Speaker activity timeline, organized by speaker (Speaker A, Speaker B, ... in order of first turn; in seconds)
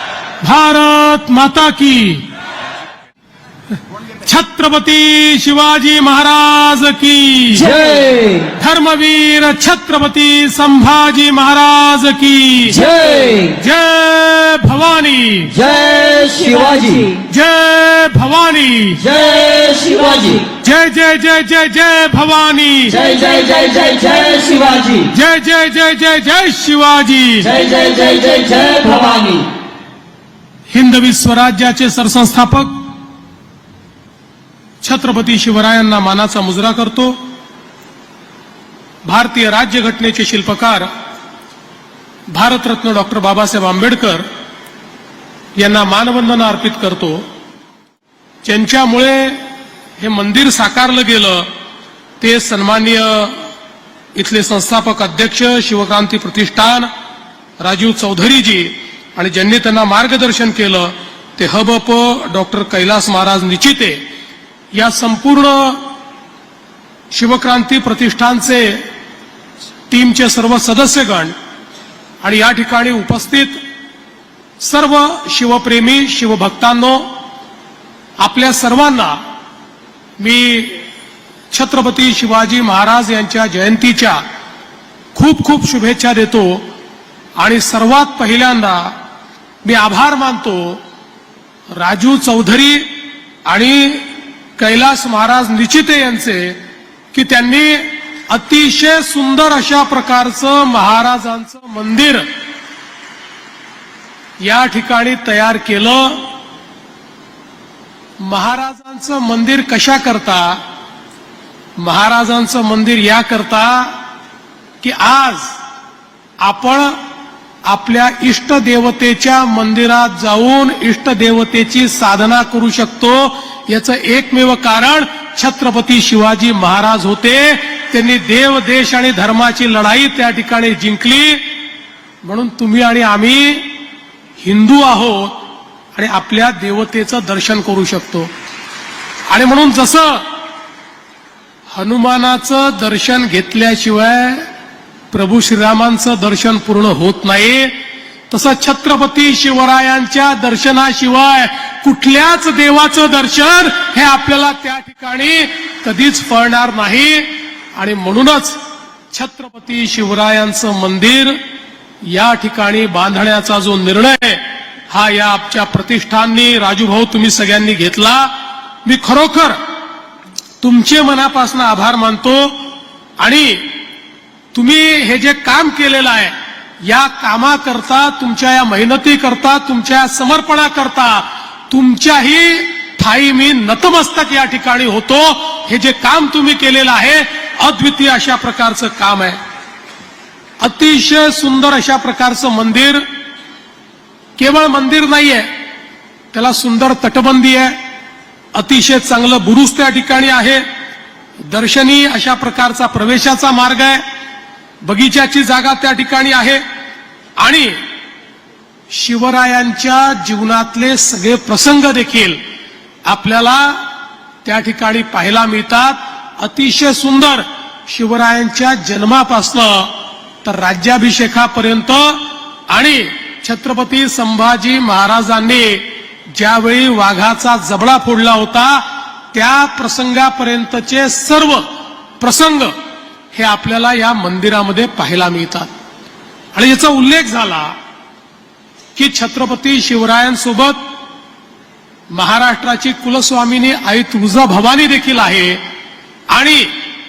Speaker A: 0.4-2.3, 4.2-7.7, 8.6-12.8, 13.5-15.6, 17.2-19.1, 20.6-23.0, 25.1-27.5, 30.7-32.8, 34.8-37.2, 39.0-40.9, 42.3-44.2, 45.6-47.2, 48.4-49.4, 50.0-51.5, 52.2-53.5, 54.1-56.9, 57.6-64.0, 64.7-65.8, 67.1-68.8, 69.9-71.3, 72.2-73.6, 74.6-77.1, 78.2-79.2, 80.2-80.8, 81.5-84.2, 85.1-86.7, 87.4-88.9, 89.6-90.8, 91.7-92.9, 93.5-94.1, 94.6-96.6, 97.1-102.3, 104.4-106.3, 108.2-110.6, 111.8-114.0, 114.8-115.6, 116.4-117.0, 117.7-131.4, 132.2-133.8, 134.4-135.4, 135.9-138.3, 139.3-140.2, 141.7-144.5, 145.1-147.8, 148.3-161.4, 162.0-168.3, 168.8-169.6, 170.6-172.6, 173.2-173.7, 174.5-189.4, 190.6-193.1, 194.4-195.5, 196.3-197.8, 198.5-200.7, 201.4-204.0, 204.8-206.6, 207.4-207.8, 208.9-212.4, 213.1-213.8, 214.4-219.9, 220.4-231.7, 232.2-232.7, 233.3-235.7, 236.5-237.8, 239.0-240.9, 242.1-245.6, 246.3-246.7
Speaker B: 7.6-8.5, 12.7-13.6, 15.5-17.2, 19.0-20.5, 22.9-25.1, 27.4-29.5